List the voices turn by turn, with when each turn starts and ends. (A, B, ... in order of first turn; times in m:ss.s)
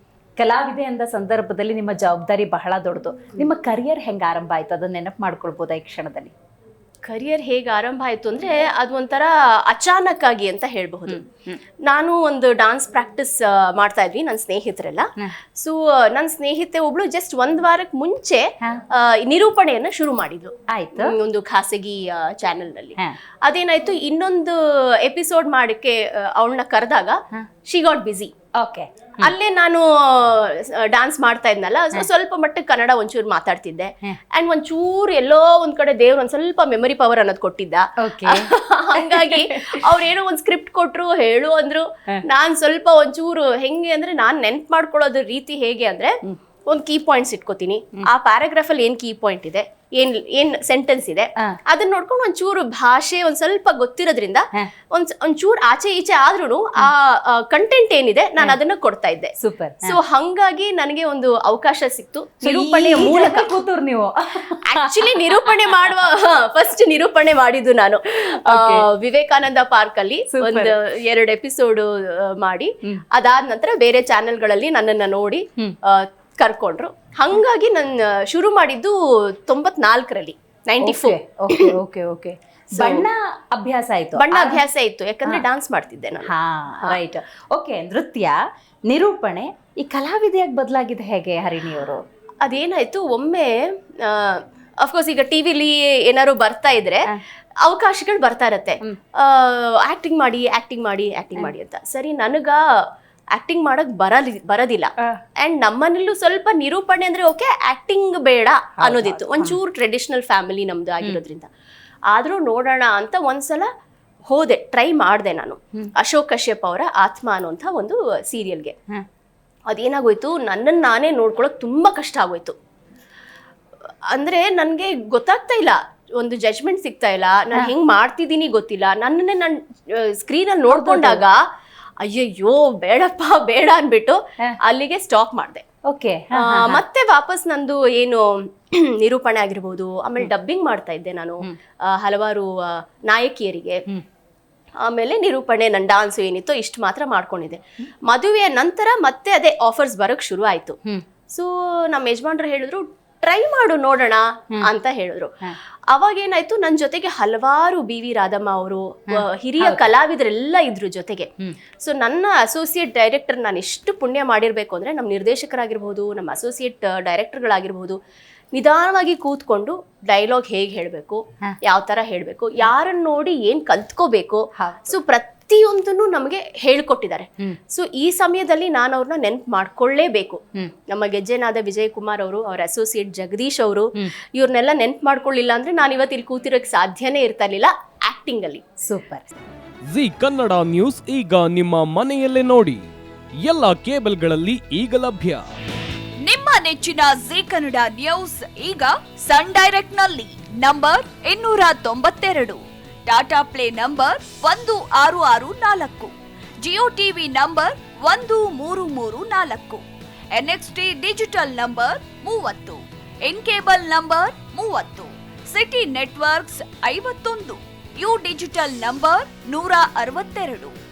0:00.4-0:06.3 A
0:07.0-0:11.2 B
0:11.1-0:11.6 A
0:11.8-0:15.1 B
0:15.6-0:28.3 B
0:20.7-0:21.1 A
0:28.6-0:29.3 A
0:29.2-0:59.3 B
0:38.0-0:38.5 A
0:39.0-0:39.7 A
0:59.4-0:59.9 A
0:59.8-1:03.5 B
1:02.4-1:05.8 A
1:04.6-1:21.7 B
1:08.4-1:08.8 A
1:10.3-1:10.7 A
1:20.8-1:24.6 A
1:22.8-1:23.1 B
1:24.2-1:26.3 B
1:26.2-1:32.0 A
1:32.4-1:37.0 B
1:37.6-1:42.6 B
1:43.3-1:51.5 B
1:48.8-1:49.6 A
1:52.1-1:53.7 B
1:54.3-1:58.7 B
1:59.7-2:02.6 B
2:04.1-2:11.4 B
2:10.7-2:11.2 A
2:12.0-2:15.6 B
2:15.9-2:16.8 A
2:16.4-2:23.8 B
2:24.8-2:30.8 B
2:31.3-2:35.3 B
2:35.9-2:48.0 B
2:39.1-2:39.9 A
2:48.5-3:08.6 B
2:54.6-2:54.9 A
3:08.8-3:09.3 A
3:09.8-3:12.8 C
3:13.4-3:15.4 C
3:16.2-3:29.8 D
3:30.3-3:40.7 D